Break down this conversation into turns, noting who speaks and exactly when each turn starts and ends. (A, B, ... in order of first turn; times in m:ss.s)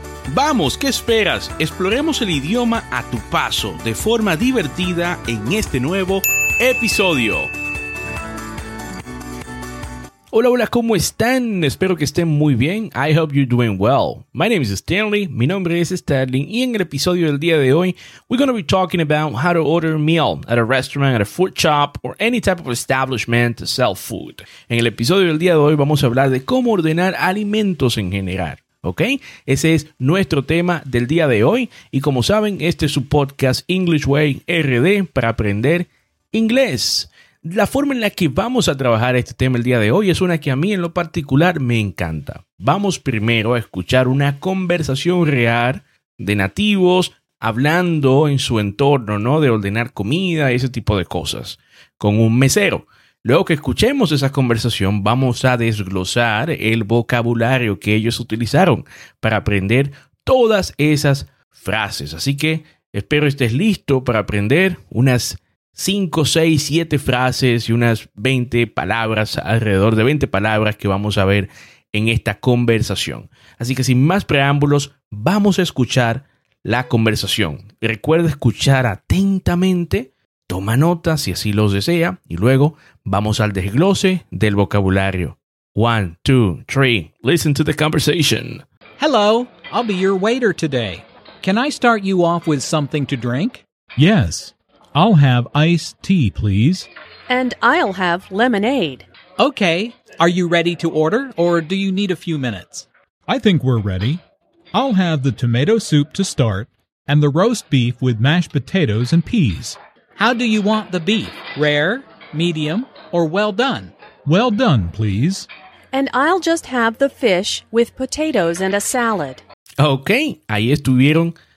0:00.3-0:07.5 A
0:10.3-1:28.6 A
1:29.0-1:36.3 B
1:34.0-1:36.9 C
1:37.3-1:39.1 D
1:39.4-1:42.9 B
1:43.3-1:44.2 C
1:43.5-1:44.2 B
1:44.8-1:45.1 B
1:44.8-1:46.7 C
1:45.6-1:54.0 B
1:47.2-1:49.6 C
1:54.3-1:55.5 C
1:54.5-1:55.5 B
1:55.9-1:59.4 D
1:59.8-2:01.4 A